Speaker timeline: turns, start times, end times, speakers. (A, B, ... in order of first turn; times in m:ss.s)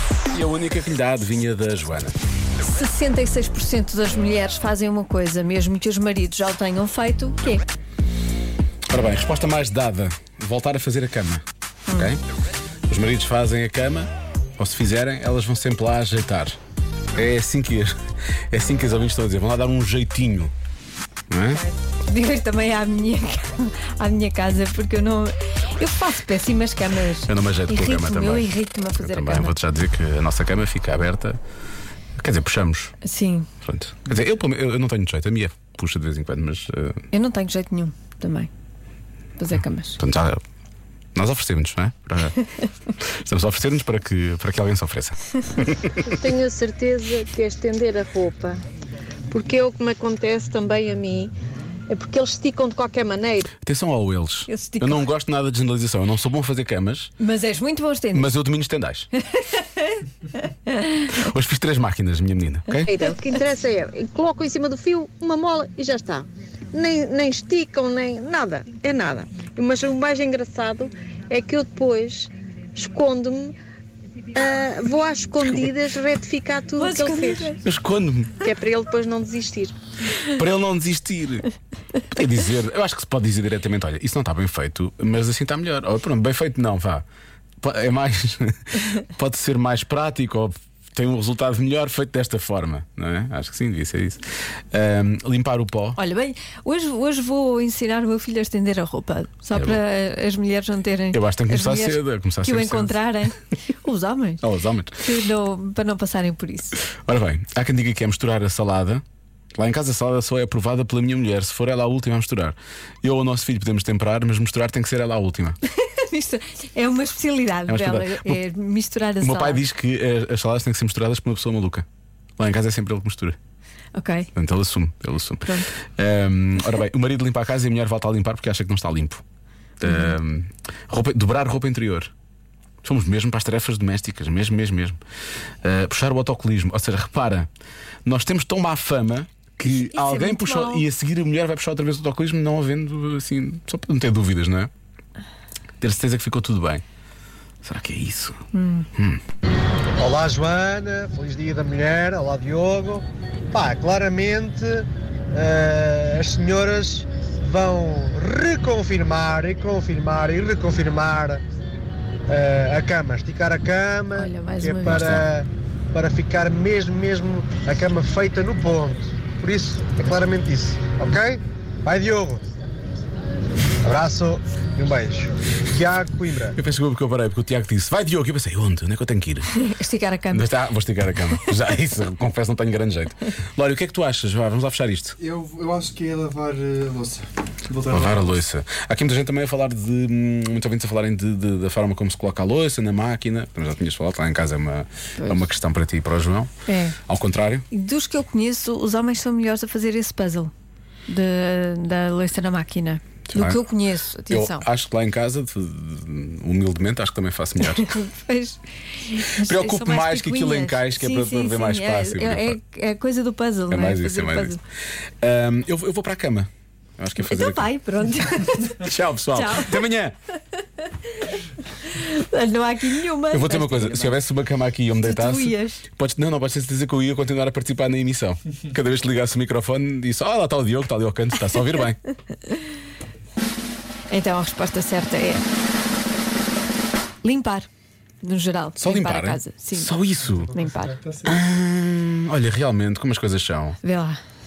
0:00.3-0:02.2 A
0:02.6-0:07.6 B
0:08.9-0:11.4 A
0:11.9-0:12.1 B
0:11.9-0:12.2 A
0:12.9-0:16.6 A
0:17.2-0:18.0 A
0:18.5-0:20.5 A
0:21.3-0:21.6 A
0:21.5-0:29.5 B
0:27.2-0:31.4 A
0:32.2-0:33.0 A
0:33.0-0:33.5 B
0:33.6-0:37.0 A
0:37.1-0:38.5 B
0:39.4-0:40.0 B
0:40.0-0:40.4 A
0:41.2-0:42.4 A
0:43.0-0:46.1 A
0:46.1-0:48.6 C
0:49.3-0:51.3 C
0:51.9-0:53.5 C
0:53.5-0:57.1 A
0:54.5-0:55.1 B
0:57.2-0:58.3 B
0:58.1-0:59.1 A
0:59.3-1:00.0 B
1:00.7-1:01.2 B
1:01.1-1:02.9 A
1:02.8-1:13.6 C
1:14.3-1:17.6 C
1:16.8-1:17.6 B
1:17.6-1:18.4 A
1:18.4-1:19.8 C
1:20.3-1:21.5 A
1:22.1-1:27.0 A
1:27.6-1:36.0 A
1:36.0-1:44.4 B
1:39.5-1:39.8 A
1:41.1-1:43.0 A
1:44.4-1:45.0 A
1:45.0-1:46.8 B
1:47.0-1:49.0 A
1:49.6-1:55.6 A
1:55.7-1:59.6 B
1:57.7-1:58.4 A
1:59.2-2:01.8 A
2:02.4-2:03.4 A
2:03.9-2:04.3 B
2:04.3-2:09.2 A
2:05.4-2:05.7 B
2:09.8-2:12.1 A
2:09.9-2:10.2 B
2:12.8-2:15.0 A
2:15.6-2:17.5 A
2:18.0-2:24.7 A
2:19.6-2:20.8 B
2:25.8-2:26.8 A
2:27.6-2:28.4 A
2:28.5-2:28.9 B
2:29.0-2:29.2 A
2:30.0-2:41.4 D
2:42.3-2:52.4 D
2:44.2-2:45.2 B
2:44.9-2:45.2 A
2:53.8-2:56.6 D
2:56.6-2:59.5 A
2:59.5-3:00.5 B
3:00.3-3:05.2 A
3:05.2-3:08.4 E
3:07.9-3:16.5 A
3:15.2-3:15.4 B
3:16.7-3:17.0 B
3:17.1-3:17.7 A
3:17.7-3:20.5 B
3:21.1-3:24.6 B
3:23.3-3:23.6 A
3:24.3-3:28.0 A
3:27.6-3:34.6 B
3:29.4-3:32.6 A
3:33.7-3:34.6 A
3:35.2-3:37.7 A
3:37.2-3:39.8 B
3:38.7-3:40.2 A
3:40.8-3:44.2 B
3:43.3-3:52.0 A
3:45.0-3:45.8 B
3:54.1-3:55.4 B
3:57.2-3:57.7 B
3:58.2-4:00.0 B
3:58.8-4:00.5 A
4:00.3-4:01.4 E
4:00.5-4:01.0 B
4:01.3-4:03.8 A
4:03.8-4:04.2 B